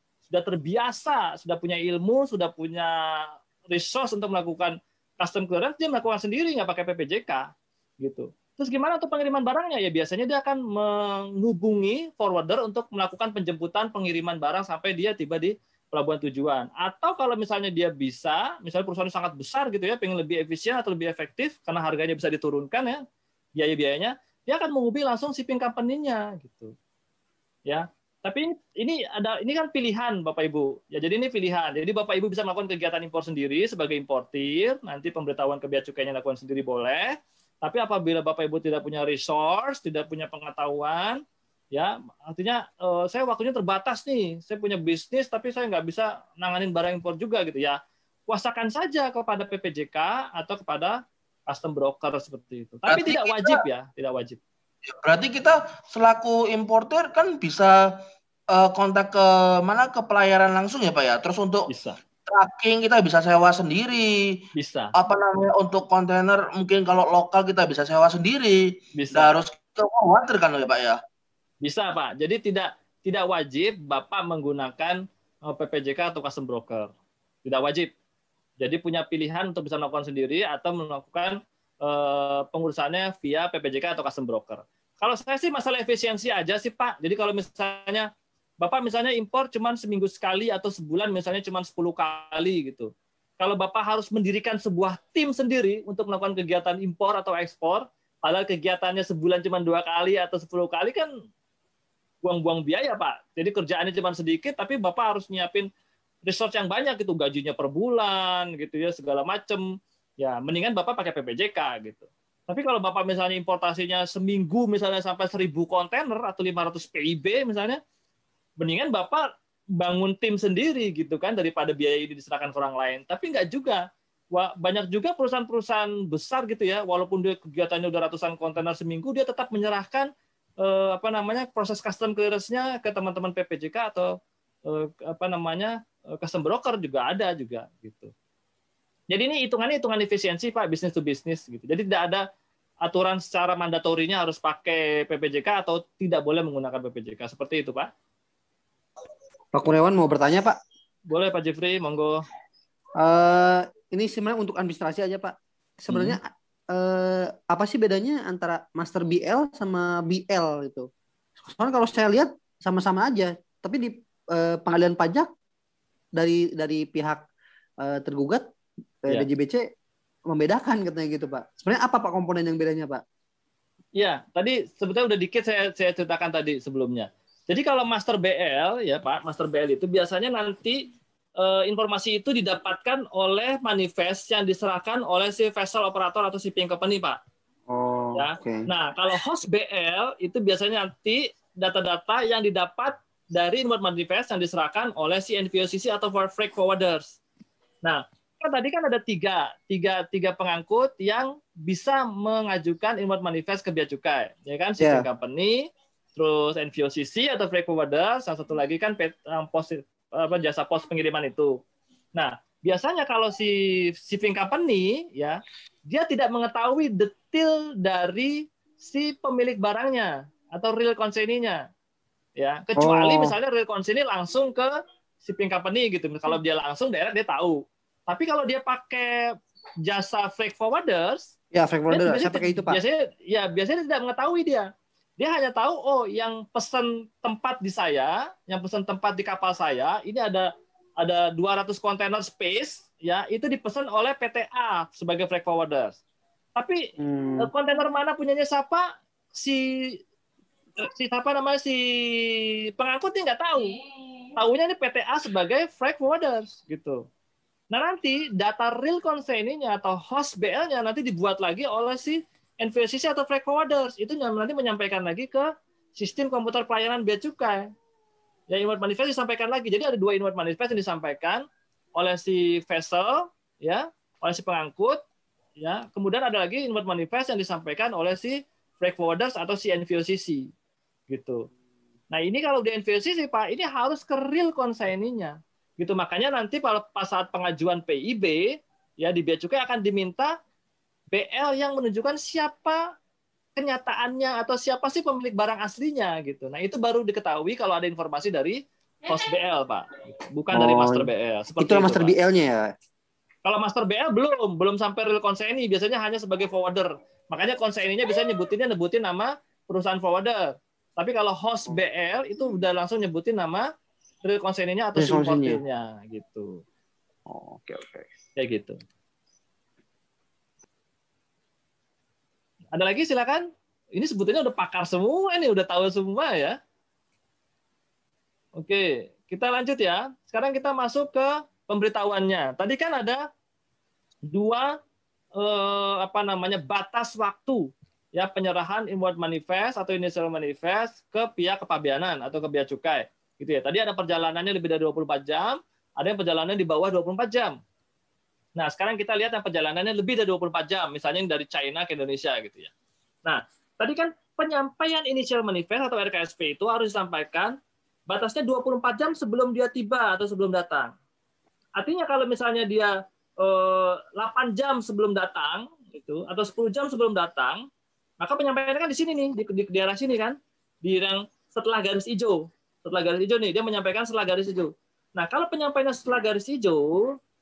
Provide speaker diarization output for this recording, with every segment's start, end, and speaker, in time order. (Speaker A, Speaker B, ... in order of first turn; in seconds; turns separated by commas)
Speaker A: 0.3-23.0, Speaker A: 23.6-26.7, Speaker A: 27.7-41.2, Speaker A: 41.7-47.8, Speaker A: 48.3-54.4, Speaker B: 52.9-53.6, Speaker B: 54.9-61.7, Speaker A: 61.7-62.0, Speaker B: 62.3-64.4, Speaker A: 64.6-64.9, Speaker B: 65.0-71.0, Speaker A: 68.9-69.3, Speaker A: 71.6-76.9, Speaker A: 77.4-77.9, Speaker A: 78.6-88.1, Speaker A: 88.6-101.1, Speaker A: 102.2-105.7, Speaker A: 106.2-109.6, Speaker A: 110.2-117.8, Speaker A: 118.6-119.2, Speaker A: 119.8-130.1, Speaker A: 130.6-134.1, Speaker A: 134.7-138.1, Speaker A: 139.1-142.2, Speaker A: 142.8-147.9, Speaker C: 149.5-150.6, Speaker A: 151.1-152.2, Speaker C: 153.0-160.9, Speaker A: 155.9-156.2, Speaker C: 161.4-165.3, Speaker C: 166.2-167.2, Speaker C: 167.8-168.4, Speaker C: 169.1-169.7, Speaker C: 170.3-173.0, Speaker A: 174.0-180.8, Speaker A: 181.4-187.2, Speaker C: 187.7-188.6, Speaker A: 188.1-197.2, Speaker A: 197.8-211.6, Speaker C: 204.8-205.0, Speaker A: 212.2-213.5, Speaker A: 214.0-221.6, Speaker A: 222.4-224.7, Speaker C: 222.8-223.3, Speaker A: 225.2-229.2, Speaker A: 229.8-231.3, Speaker C: 231.5-232.8, Speaker A: 231.9-234.7, Speaker A: 235.2-240.5, Speaker A: 241.0-246.0, Speaker C: 247.0-247.5, Speaker A: 247.4-249.7, Speaker A: 250.8-253.7, Speaker A: 254.3-257.0, Speaker A: 257.7-267.7, Speaker A: 268.5-271.4, Speaker A: 272.0-275.0, Speaker A: 275.6-280.5, Speaker A: 281.1-281.5, Speaker A: 282.1-288.5, Speaker A: 289.0-290.3, Speaker A: 291.1-292.8, Speaker A: 293.6-302.1, Speaker C: 300.5-302.7, Speaker A: 303.4-313.6, Speaker A: 314.2-316.6, Speaker C: 314.9-315.6, Speaker C: 317.3-318.1, Speaker A: 318.4-318.8, Speaker A: 322.7-326.6, Speaker A: 328.6-333.2, Speaker A: 334.3-334.7, Speaker A: 335.4-347.6, Speaker A: 348.6-352.7, Speaker A: 353.2-357.5, Speaker A: 358.1-360.9, Speaker A: 361.8-367.6, Speaker A: 368.2-377.0